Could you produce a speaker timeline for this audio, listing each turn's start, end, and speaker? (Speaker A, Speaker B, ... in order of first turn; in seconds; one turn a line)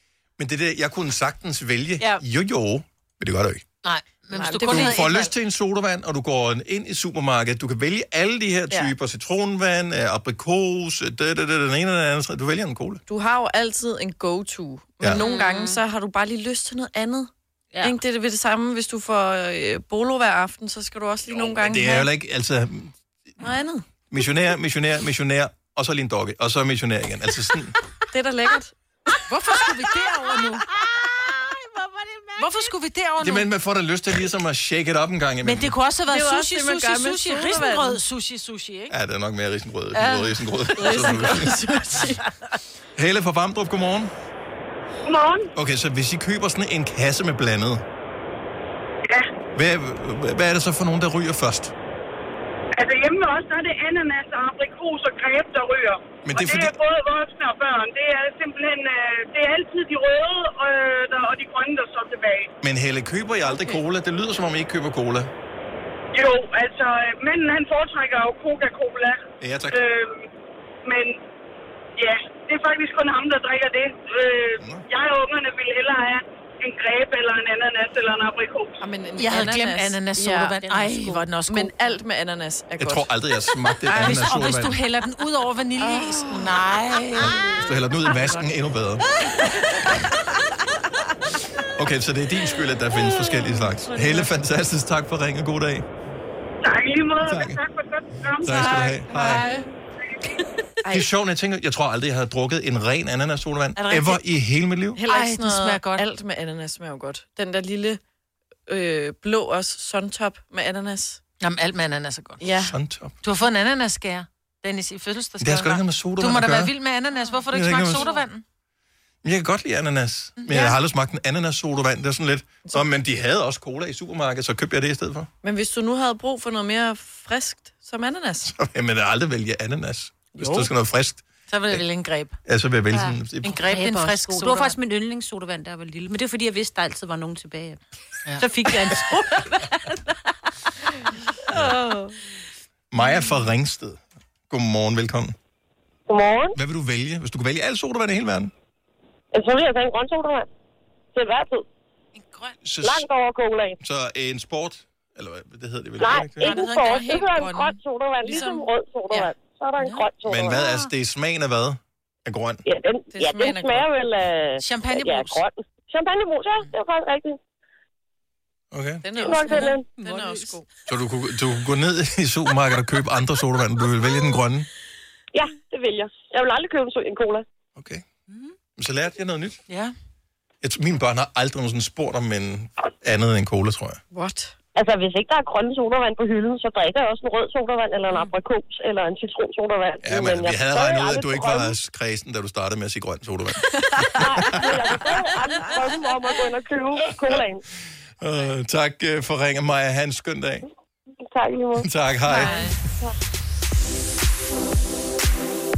Speaker A: 0.4-3.6
Speaker B: 3.8-5.3
Speaker C: 4.3-5.0
Speaker A: 4.6-13.0
Speaker C: 13.1-17.3
Speaker D: 15.1-15.8
Speaker D: 17.7-18.0
Speaker C: 17.8-22.1
Speaker A: 21.3-22.9
Speaker C: 23.4-23.9
Speaker A: 24.1-27.8
Speaker C: 28.1-29.2
Speaker B: 29.3-30.7
Speaker D: 30.7-32.7
Speaker B: 32.4-33.5
Speaker A: 33.2-35.7
Speaker B: 35.4-39.0
Speaker C: 36.1-38.0
Speaker A: 38.9-41.6
Speaker B: 40.0-41.3
Speaker C: 40.8-42.2
Speaker A: 43.0-44.1
Speaker E: 45.0-45.5
Speaker A: 45.5-47.8
Speaker A: 49.5-51.7
Speaker E: 52.8-62.5
Speaker A: 56.2-56.8
Speaker A: 62.6-65.3
Speaker C: 63.5-63.8
Speaker E: 66.1-70.2
Speaker A: 69.4-69.8
Speaker E: 70.8-71.2
Speaker E: 72.0-78.8
Speaker A: 74.6-74.8
Speaker C: 78.8-80.6
Speaker B: 79.2-81.7
Speaker D: 80.7-81.2
Speaker C: 81.5-83.1
Speaker A: 82.8-84.8
Speaker C: 83.9-84.3
Speaker B: 84.0-87.5
Speaker C: 85.8-86.6
Speaker A: 87.2-89.1
Speaker C: 87.2-87.7
Speaker C: 88.2-88.5
Speaker B: 89.4-89.9
Speaker A: 91.7-95.8
Speaker D: 93.8-94.3
Speaker E: 96.6-99.0
Speaker A: 97.2-97.6
Speaker A: 98.4-99.5
Speaker B: 98.8-99.6
Speaker C: 99.3-99.6
Speaker A: 100.9-105.0
Speaker B: 103.8-104.2
Speaker C: 105.0-108.0
Speaker B: 105.1-106.0
Speaker C: 108.7-111.2
Speaker B: 111.4-112.5
Speaker C: 112.4-112.8
Speaker A: 112.7-113.2
Speaker B: 113.2-118.4
Speaker A: 115.4-116.7
Speaker A: 117.5-118.1
Speaker A: 119.2-125.3
Speaker B: 120.4-120.8
Speaker C: 120.5-120.8
Speaker C: 125.4-128.5
Speaker A: 128.4-131.8
Speaker B: 131.5-132.4
Speaker A: 132.5-133.6
Speaker D: 132.9-137.8
Speaker B: 133.4-134.8
Speaker B: 138.3-138.9
Speaker D: 138.4-140.2
Speaker C: 141.5-142.2
Speaker A: 141.5-141.8
Speaker A: 142.9-145.3
Speaker F: 146.1-146.6
Speaker A: 146.6-148.5
Speaker F: 149.3-150.5
Speaker F: 151.2-151.7
Speaker B: 152.2-152.6
Speaker A: 152.6-153.1
Speaker F: 152.8-153.8
Speaker A: 153.8-156.6
Speaker F: 156.0-160.6
Speaker B: 156.4-157.6
Speaker C: 156.9-157.7
Speaker C: 158.2-158.5
Speaker B: 158.3-159.3
Speaker B: 159.8-160.1
Speaker A: 160.2-162.6
Speaker F: 162.7-167.4
Speaker C: 163.1-163.9
Speaker B: 164.6-165.4
Speaker A: 168.7-169.1
Speaker C: 169.0-170.7
Speaker F: 169.2-169.9
Speaker B: 169.5-169.8
Speaker D: 170.0-170.5
Speaker A: 170.9-174.7
Speaker F: 175.3-177.4
Speaker A: 177.8-178.1
Speaker A: 178.8-179.6
Speaker B: 179.7-179.9
Speaker A: 180.6-184.0
Speaker C: 184.1-184.6
Speaker F: 184.8-191.7
Speaker A: 190.0-195.0
Speaker F: 194.1-197.6
Speaker A: 197.0-197.5
Speaker A: 198.2-200.7
Speaker F: 201.3-201.9
Speaker A: 201.8-202.7
Speaker B: 202.3-202.8